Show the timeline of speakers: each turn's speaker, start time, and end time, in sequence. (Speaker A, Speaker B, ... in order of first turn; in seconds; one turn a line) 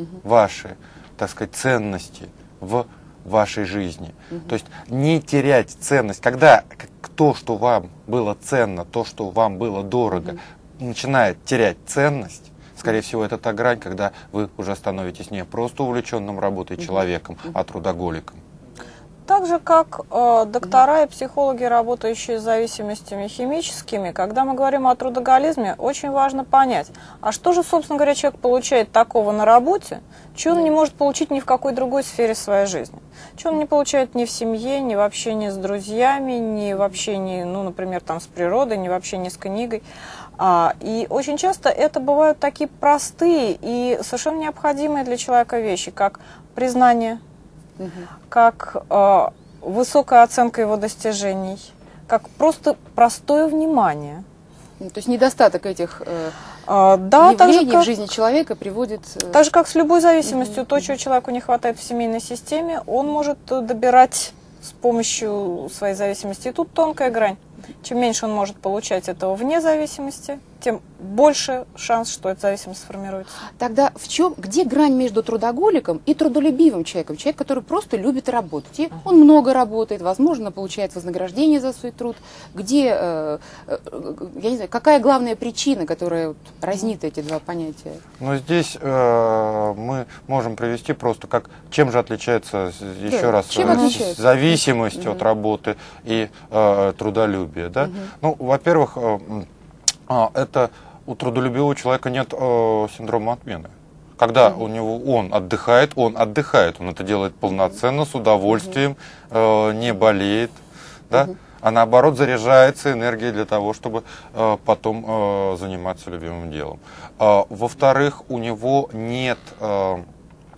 Speaker A: 0.2-18.4
Speaker B: 19.3-39.8
Speaker B: 40.4-47.2
Speaker C: 47.8-48.1
Speaker B: 48.3-54.2
Speaker C: 54.8-56.4
Speaker B: 56.7-57.9
Speaker C: 57.2-59.4
Speaker B: 59.3-73.4
Speaker C: 60.3-60.6
Speaker C: 73.6-88.0
Speaker A: 88.2-99.5
Speaker C: 93.1-94.2
Speaker C: 94.9-95.2
Speaker C: 97.8-98.1
Speaker A: 100.1-110.6
Speaker A: 111.1-120.1